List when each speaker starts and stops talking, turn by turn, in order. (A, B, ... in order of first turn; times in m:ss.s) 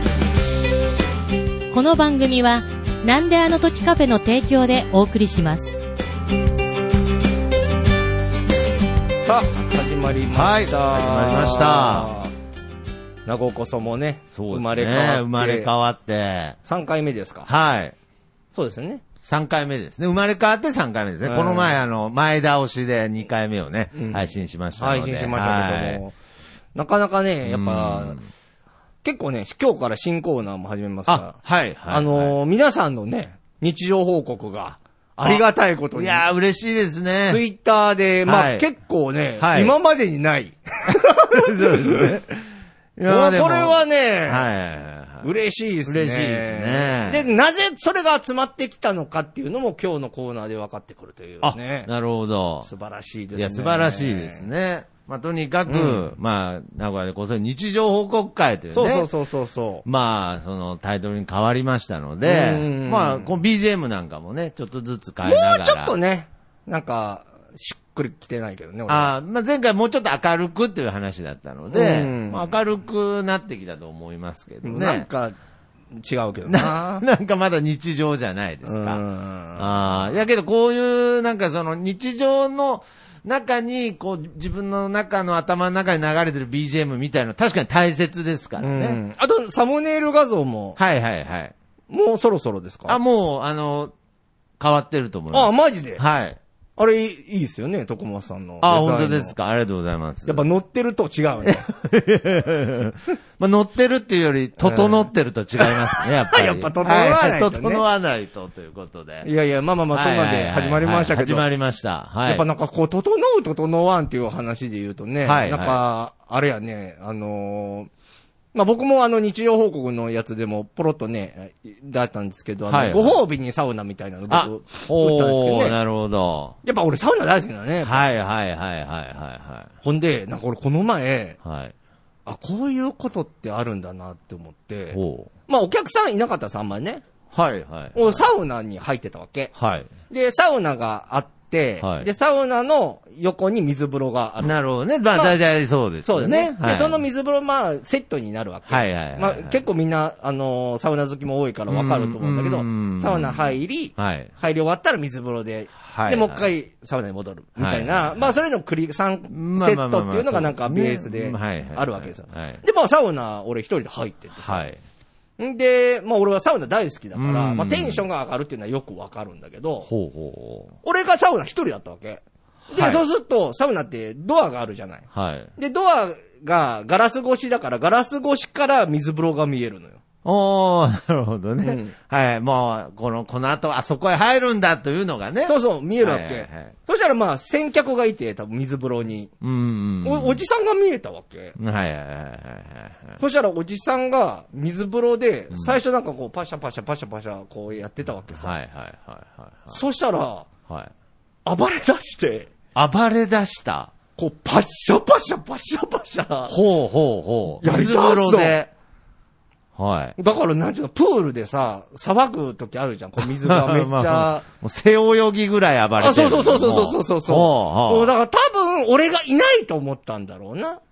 0:01.7-0:05.8 A
0:09.2-0:12.3 B
0:10.3-0:12.1 C
0:13.3-0:15.7 B
0:14.3-0:16.6 C
0:16.6-0:17.5 B
0:17.4-0:17.9 C
0:18.5-0:19.0 B
0:19.2-0:26.0 C
0:21.2-0:21.8 B
0:24.0-0:24.2 B
0:24.8-0:26.1 B
0:26.7-0:28.2 B
0:27.4-0:28.2 C
0:29.0-0:31.4 B
0:31.1-0:32.3 C
0:31.9-0:36.2 B
0:35.2-0:37.4 C
0:37.3-0:42.1 B
0:38.2-0:38.7 C
0:39.4-0:39.7 C
0:41.3-0:42.3 C
0:43.0-0:45.3 C
0:43.1-0:44.5 B
0:45.2-0:51.9 B
0:45.8-0:47.3 C
0:51.4-0:52.7 C
0:52.6-0:54.4 B
0:53.3-0:59.1 C
0:55.7-0:56.1 B
0:58.7-0:59.8 B
0:59.8-1:05.9 C
1:02.2-1:03.3 B
1:05.2-1:09.1 B
1:08.9-1:15.1 C
1:11.7-1:12.4 B
1:14.6-1:15.4 B
1:15.9-1:17.0 B
1:16.5-1:19.0 C
1:18.6-1:19.7 B
1:19.6-1:29.0 C
1:28.6-1:30.8 B
1:30.8-1:31.5 C
1:31.9-1:33.0 B
1:32.9-1:33.9 C
1:34.6-1:36.4 C
1:35.3-1:36.0 B
1:36.8-1:39.3 B
1:38.6-1:40.4 C
1:40.2-1:41.6 B
1:41.4-1:49.3 C
1:44.6-1:45.0 B
1:46.3-1:47.8 B
1:49.2-1:51.4 B
1:49.9-1:52.4 C
1:52.2-1:57.9 B
1:55.2-1:55.8 C
1:58.5-2:05.8 B
2:02.7-2:03.2 C
2:04.3-2:06.6 C
2:06.6-2:08.1 B
2:07.8-2:09.7 C
2:09.8-2:11.4 B
2:11.4-2:11.7 C
2:12.2-2:17.0 B
2:14.9-2:15.3 C
2:17.3-2:18.2 C
2:17.9-2:19.5 B
2:19.6-2:19.9 C
2:20.1-2:24.5 B
2:21.8-2:22.1 C
2:24.4-2:27.0 C
2:26.0-2:44.7 B
2:28.7-2:29.6 C
2:31.7-2:34.3 C
2:35.8-2:36.5 C
2:37.6-2:38.4 C
2:39.3-2:42.6 C
2:44.4-2:44.8 C
2:45.4-2:49.9 B
2:47.2-2:48.0 C
2:49.9-2:50.7 C
2:50.8-3:00.0 B
2:52.7-2:53.0 C
2:55.1-2:55.5 C
3:00.2-3:06.7 C
3:01.6-3:01.9 B
3:05.4-3:09.3 B
3:09.4-3:10.4 C
3:10.0-3:11.5 B
3:11.6-3:13.2 C
3:13.2-3:18.5 B
3:15.5-3:15.8 C
3:18.4-3:19.8 C
3:19.7-3:20.5 B
3:21.4-3:22.5 B
3:22.8-3:23.9 C
3:24.2-3:26.6 B
3:26.5-3:28.7 C
3:27.6-3:28.5 B
3:29.8-3:30.2 C
3:30.2-3:34.4 B
3:33.2-3:38.1 C
3:36.0-3:40.8 B